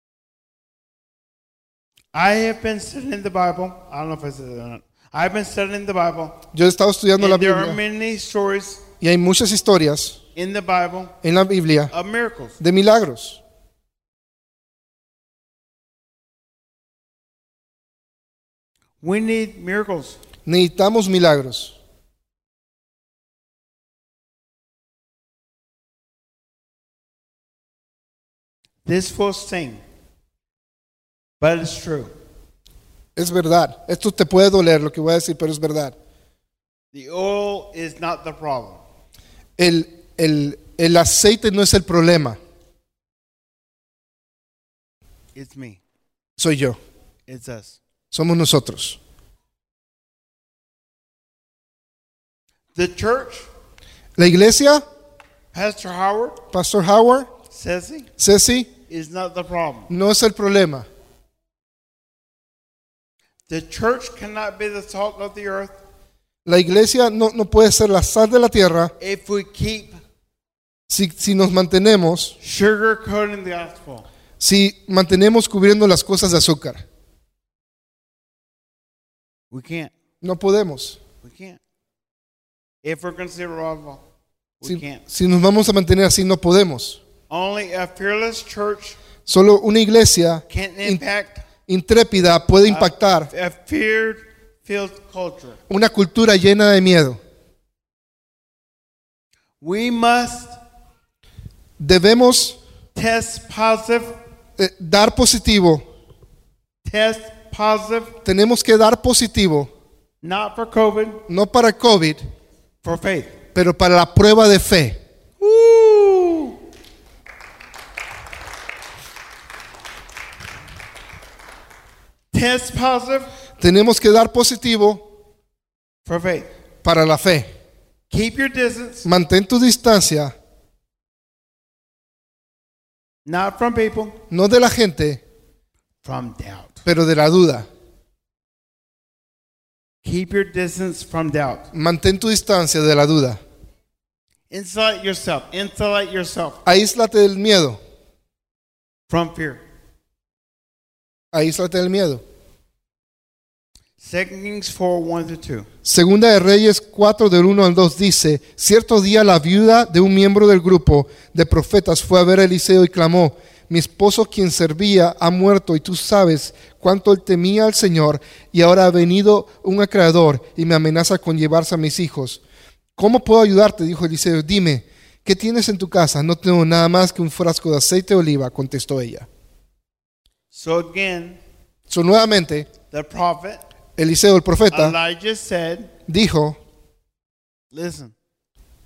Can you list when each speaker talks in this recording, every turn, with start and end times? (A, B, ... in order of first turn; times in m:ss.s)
0:02.1-0:06.4 A
0:06.5-0:07.8 B
0:07.2-0:08.8 A
0:09.0-0:10.2 B
0:10.4-0:11.2 A
0:11.2-0:11.9 B
0:11.9-0:12.6 A
0:12.6-0:13.4 B
0:19.0-0:20.2 A
0:20.5-0:21.8 B
0:28.9-0:29.8 A
0:31.4-0:32.1 A
0:33.2-0:36.0 B
0:36.9-0:38.8 A
0:39.6-0:42.4 B
0:45.4-0:45.8 A
0:46.4-0:46.8 B
0:47.3-0:47.8 A
0:48.1-0:49.0 B
0:52.8-0:53.5 A
0:54.2-0:54.8 B
0:55.5-0:56.4 A
0:56.5-0:57.3 B
0:57.5-0:58.1 A
0:58.2-0:58.7 B
0:58.9-0:59.9 A
0:59.9-1:00.9 B
1:03.5-1:05.8 A
1:06.4-1:08.9 B
1:09.0-1:10.0 A
1:10.9-1:12.4 B
1:12.4-1:14.1 A
1:14.4-1:16.9 B
1:19.5-1:19.9 A
1:20.2-1:21.0 B
1:21.2-1:21.6 A
1:22.8-1:24.0 A
1:24.6-1:25.0 A
1:24.6-1:27.0 B
1:27.3-1:29.0 A
1:29.3-1:31.0 B
1:30.5-1:31.4 A
1:31.7-1:33.3 B
1:32.7-1:35.6 A
1:35.7-1:37.2 B
1:39.6-1:40.6 A
1:41.8-1:42.6 B
1:43.0-1:44.2 A
1:44.6-1:45.8 B
1:46.8-1:48.1 A
1:48.2-1:49.7 B
1:50.2-1:51.2 A
1:51.3-1:52.2 B
1:52.8-1:53.4 A
1:53.5-1:55.0 B
1:55.4-1:56.6 A
2:02.3-2:03.3 A
2:03.6-2:05.1 B
2:06.0-2:06.5 A
2:06.8-2:07.5 B
2:08.1-2:09.1 A
2:09.0-2:10.4 B
2:13.3-2:14.2 A
2:14.3-2:15.2 B
2:16.0-2:16.8 A
2:16.9-2:17.7 B
2:20.0-2:21.7 A
2:21.7-2:23.4 B
2:24.5-2:26.6 A
2:26.6-2:27.8 B
2:29.1-2:29.6 A
2:31.3-2:32.2 B
2:34.0-2:35.7 A
2:35.8-2:52.4 B
2:53.0-2:59.3 B
3:00.5-3:01.4 A
3:01.9-3:02.7 B
3:02.9-3:03.6 A
3:04.0-3:05.0 B
3:04.7-3:05.9 A
3:06.1-3:06.6 B
3:07.7-3:08.1 A